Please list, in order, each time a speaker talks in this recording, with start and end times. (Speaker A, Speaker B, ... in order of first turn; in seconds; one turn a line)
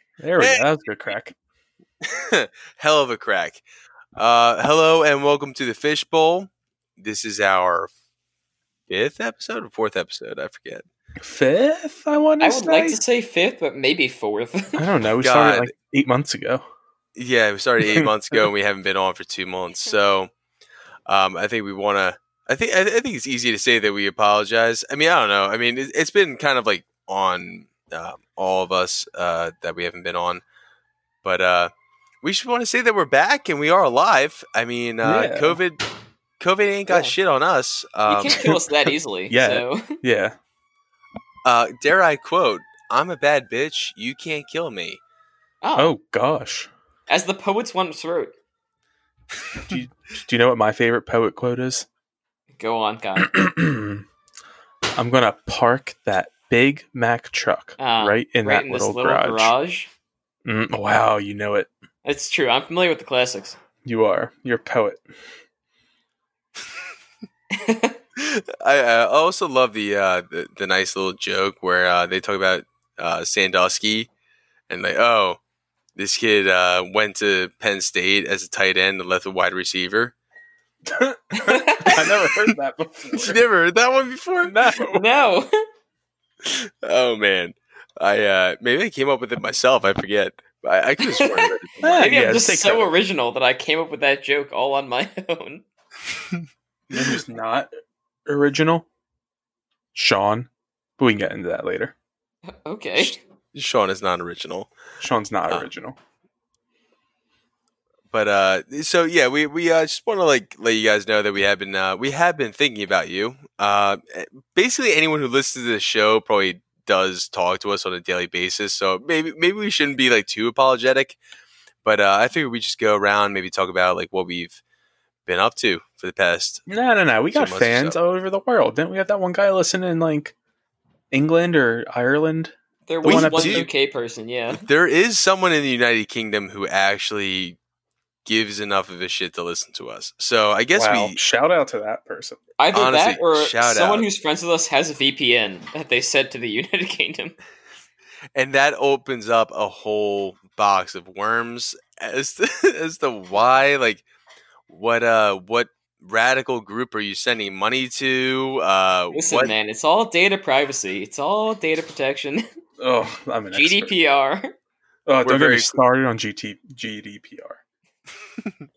Speaker A: 0.2-1.3
Speaker B: 0.4-0.6
Speaker B: 2.1-3.6
Speaker B: 4.2-7.9
Speaker B: 8.9-10.8
Speaker A: 11.2-13.0
Speaker C: 12.4-14.8
Speaker A: 14.8-16.6
Speaker B: 15.2-15.7
Speaker B: 17.1-20.3
Speaker B: 21.1-30.4
Speaker B: 31.2-31.7
Speaker B: 32.2-35.8
Speaker A: 35.0-35.6
Speaker B: 36.4-38.5
Speaker C: 36.9-37.2
Speaker C: 38.1-39.9
Speaker A: 39.3-40.4
Speaker B: 41.4-45.0
Speaker C: 45.6-45.9
Speaker A: 45.8-46.7
Speaker C: 47.1-48.3
Speaker A: 49.6-51.9
Speaker C: 52.5-53.4
Speaker A: 53.2-54.0
Speaker A: 55.0-59.5
Speaker C: 57.8-59.9
Speaker A: 60.4-61.7
Speaker C: 62.0-63.5
Speaker A: 63.8-65.0
Speaker C: 67.6-67.9
Speaker B: 68.2-74.1
Speaker B: 74.7-75.4
Speaker B: 76.0-80.1
Speaker A: 80.9-83.4
Speaker C: 81.4-82.0
Speaker B: 83.1-84.5
Speaker A: 84.4-85.0
Speaker C: 84.8-85.5
Speaker B: 86.4-92.1
Speaker C: 91.0-91.5
Speaker A: 91.8-92.9
Speaker C: 92.0-95.6
Speaker A: 96.9-97.7
Speaker A: 98.2-98.9
Speaker A: 99.9-101.9
Speaker C: 102.6-103.2
Speaker B: 103.0-104.7
Speaker A: 105.0-106.0
Speaker B: 108.1-121.2
Speaker B: 121.8-124.6
Speaker B: 125.2-126.6
Speaker A: 126.7-130.3
Speaker B: 127.3-128.0
Speaker A: 131.1-133.7
Speaker C: 132.8-134.6
Speaker B: 133.0-133.7
Speaker B: 134.5-137.6
Speaker B: 138.2-141.2
Speaker A: 140.7-142.4
Speaker C: 142.6-147.3
Speaker B: 142.7-144.1
Speaker B: 148.3-154.0
Speaker B: 154.7-159.5
Speaker C: 159.1-162.4
Speaker A: 162.8-163.9
Speaker C: 163.5-164.5
Speaker A: 165.1-167.6
Speaker B: 165.2-165.8